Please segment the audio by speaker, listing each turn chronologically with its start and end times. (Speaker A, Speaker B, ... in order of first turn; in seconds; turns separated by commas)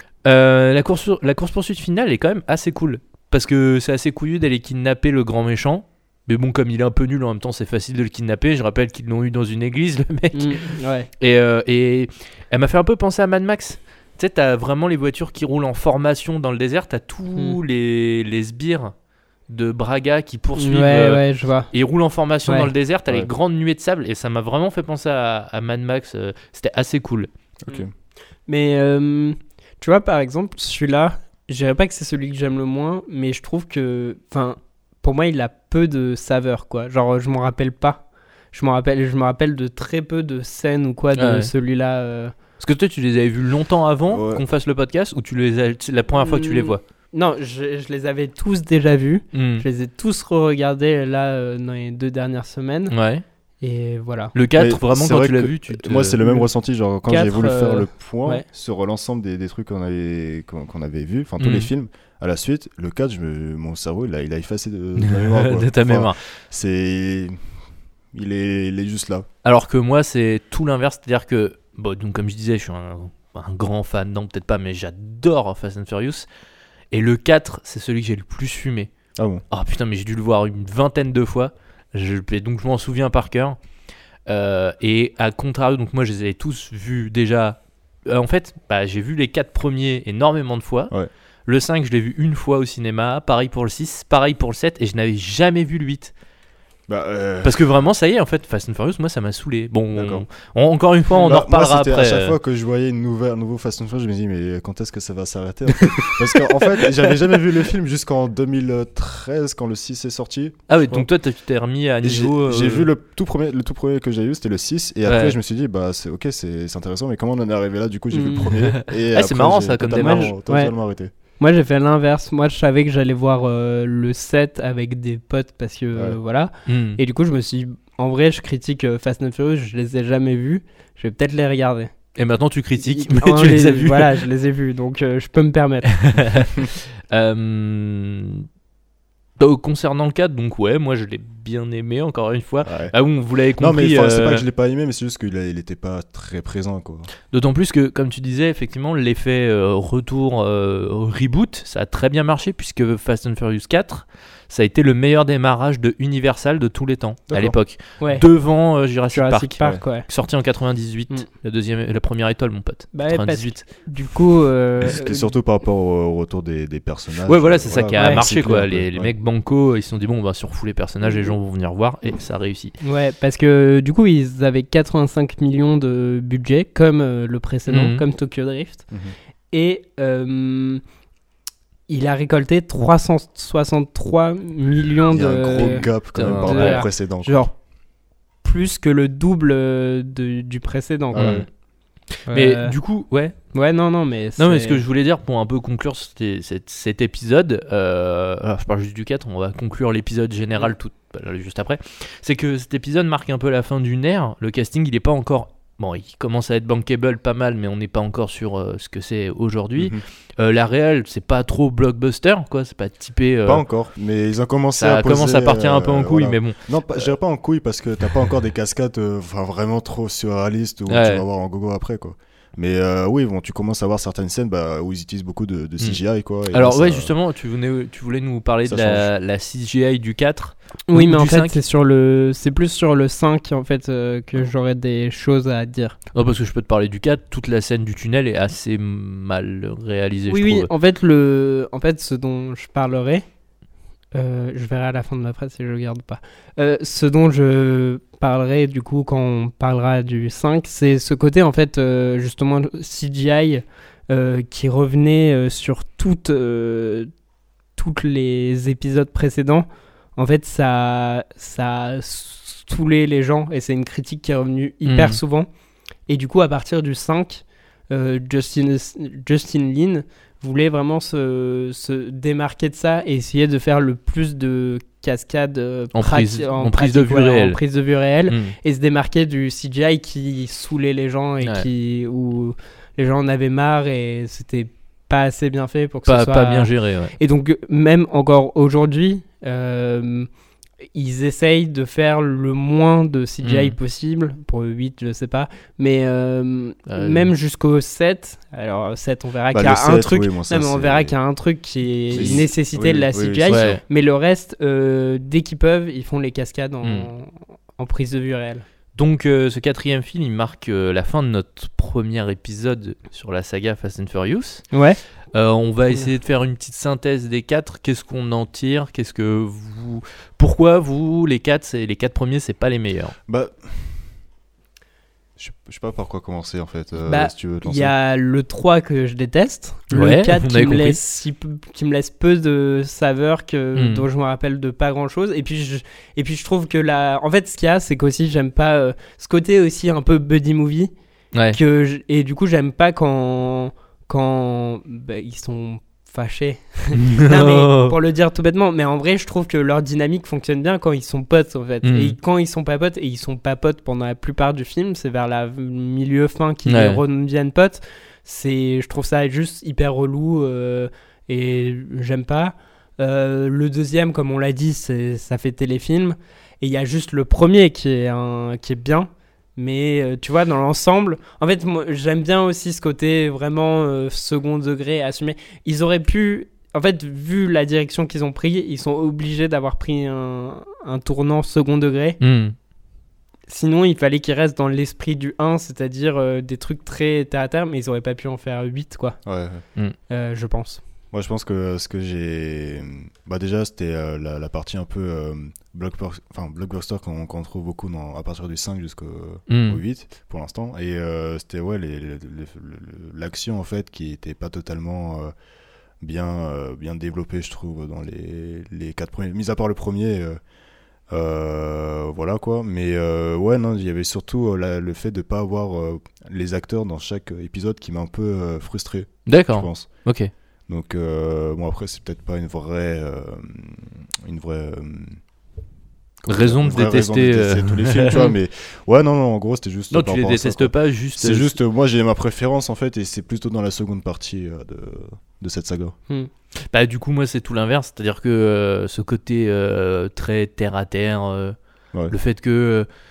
Speaker A: 0.2-10.6, Speaker B: 10.3-11.1, Speaker A: 11.2-18.9, Speaker A: 19.5-27.3, Speaker B: 20.6-21.7, Speaker C: 27.6-27.9, Speaker B: 28.5-42.3, Speaker A: 41.2-41.5, Speaker A: 42.6-46.8, Speaker C: 44.1-44.4, Speaker B: 46.2-52.9, Speaker A: 49.3-49.6, Speaker A: 52.9-53.2, Speaker B: 53.6-54.3, Speaker A: 54.3-56.2, Speaker C: 54.5-67.3, Speaker B: 57.1-58.4, Speaker A: 61.4-61.7, Speaker A: 65.0-66.2, Speaker C: 68.1-69.3, Speaker A: 69.4-76.3, Speaker A: 76.9-78.9, Speaker C: 79.2-79.4, Speaker A: 79.5-83.6, Speaker A: 84.3-90.9, Speaker A: 91.5-96.1, Speaker C: 96.9-97.7, Speaker A: 97.4-102.3, Speaker C: 99.9-100.2, Speaker C: 101.1-111.1, Speaker A: 105.9-106.1, Speaker A: 110.7-112.9, Speaker C: 112.0-121.1, Speaker A: 115.0-115.3, Speaker B: 118.1-118.5, Speaker A: 118.7-120.3, Speaker B: 120.0-120.7, Speaker B: 121.4-131.9, Speaker A: 126.7-127.0, Speaker A: 132.2-134.2, Speaker B: 132.8-136.0, Speaker A: 135.9-138.4, Speaker A: 139.4-144.4, Speaker C: 142.6-142.9, Speaker C: 143.6-147.1, Speaker A: 147.3-163.6, Speaker C: 157.3-157.6, Speaker B: 158.0-158.2, Speaker B: 159.1-160.1, Speaker B: 162.9-165.3, Speaker C: 164.8-169.1, Speaker A: 167.2-172.8, Speaker B: 168.0-168.2, Speaker B: 172.8-178.8, Speaker A: 177.7-178.0, Speaker B: 179.5-180.8, Speaker B: 181.9-187.5, Speaker C: 185.1-187.4, Speaker A: 185.6-186.8, Speaker B: 188.4-191.4, Speaker C: 191.1-191.4, Speaker A: 191.2-191.5, Speaker A: 192.2-193.5, Speaker B: 192.3-192.7, Speaker B: 193.5-194.8, Speaker A: 194.4-213.6, Speaker C: 209.8-210.0, Speaker C: 213.4-227.1, Speaker A: 214.8-216.6, Speaker A: 220.9-221.2, Speaker A: 225.8-231.6, Speaker C: 228.6-229.1, Speaker B: 230.9-235.9, Speaker A: 236.1-240.7, Speaker B: 240.3-243.2, Speaker B: 244.1-257.1, Speaker B: 257.8-265.5, Speaker A: 264.8-265.2, Speaker B: 266.1-290.3, Speaker A: 275.9-277.6, Speaker A: 278.3-278.6, Speaker A: 281.4-281.7, Speaker A: 286.1-287.1, Speaker B: 290.9-308.6, Speaker A: 293.4-293.8, Speaker A: 296.9-297.3, Speaker C: 299.5-301.1, Speaker C: 302.1-303.8, Speaker A: 302.1-302.4, Speaker A: 303.5-303.8, Speaker A: 306.8-307.1, Speaker A: 308.9-314.6, Speaker B: 314.7-315.0, Speaker A: 315.3-323.1, Speaker C: 323.3-324.1, Speaker C: 325.4-327.9, Speaker B: 327.1-340.9, Speaker A: 329.9-331.0, Speaker A: 333.7-334.1, Speaker A: 341.3-341.6, Speaker B: 341.5-382.2, Speaker A: 346.9-347.9, Speaker A: 351.8-352.1, Speaker A: 356.6-357.0, Speaker A: 382.2-382.5, Speaker B: 383.5-389.2, Speaker C: 389.2-389.6, Speaker B: 390.1-390.8, Speaker C: 391.1-405.3, Speaker A: 399.5-399.8, Speaker C: 406.0-410.4, Speaker C: 411.1-420.0, Speaker A: 419.3-420.3, Speaker C: 420.7-425.2, Speaker C: 426.2-435.9, Speaker A: 426.3-428.3, Speaker A: 429.9-431.6, Speaker A: 436.7-441.6, Speaker A: 442.1-442.9